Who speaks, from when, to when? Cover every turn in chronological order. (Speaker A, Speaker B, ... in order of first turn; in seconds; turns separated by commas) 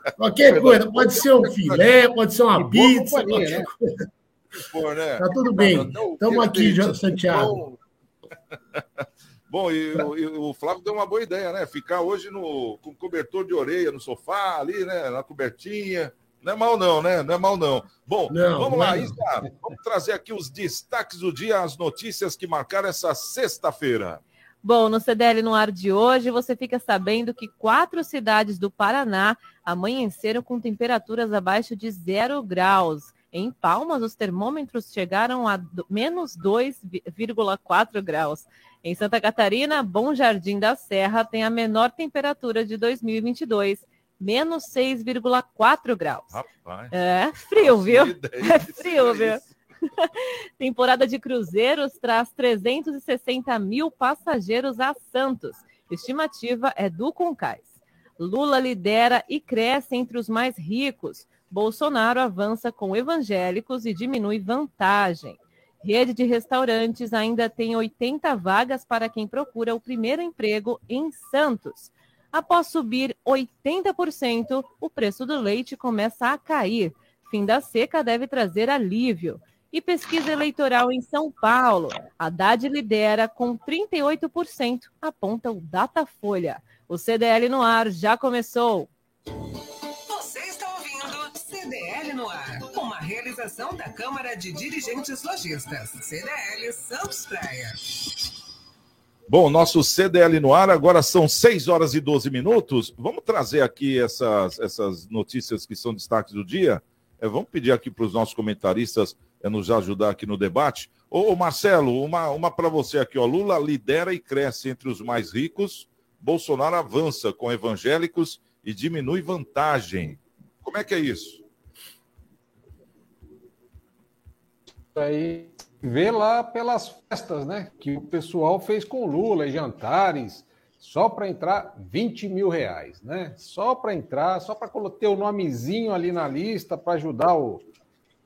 Speaker A: 0.2-3.8, Speaker B: 0.5-1.9, Speaker C: 2.6-2.9, Speaker B: 2.7-3.6, Speaker B: 4.6-7.8, Speaker A: 5.2-7.6, Speaker B: 8.8-24.2, Speaker A: 18.3-19.2, Speaker D: 24.6-46.4, Speaker B: 46.3-46.9, Speaker D: 46.9-49.4, Speaker B: 47.5-49.5, Speaker D: 50.0-88.9, Speaker E: 90.1-97.9, Speaker B: 99.3-121.4, Speaker C: 124.9-137.6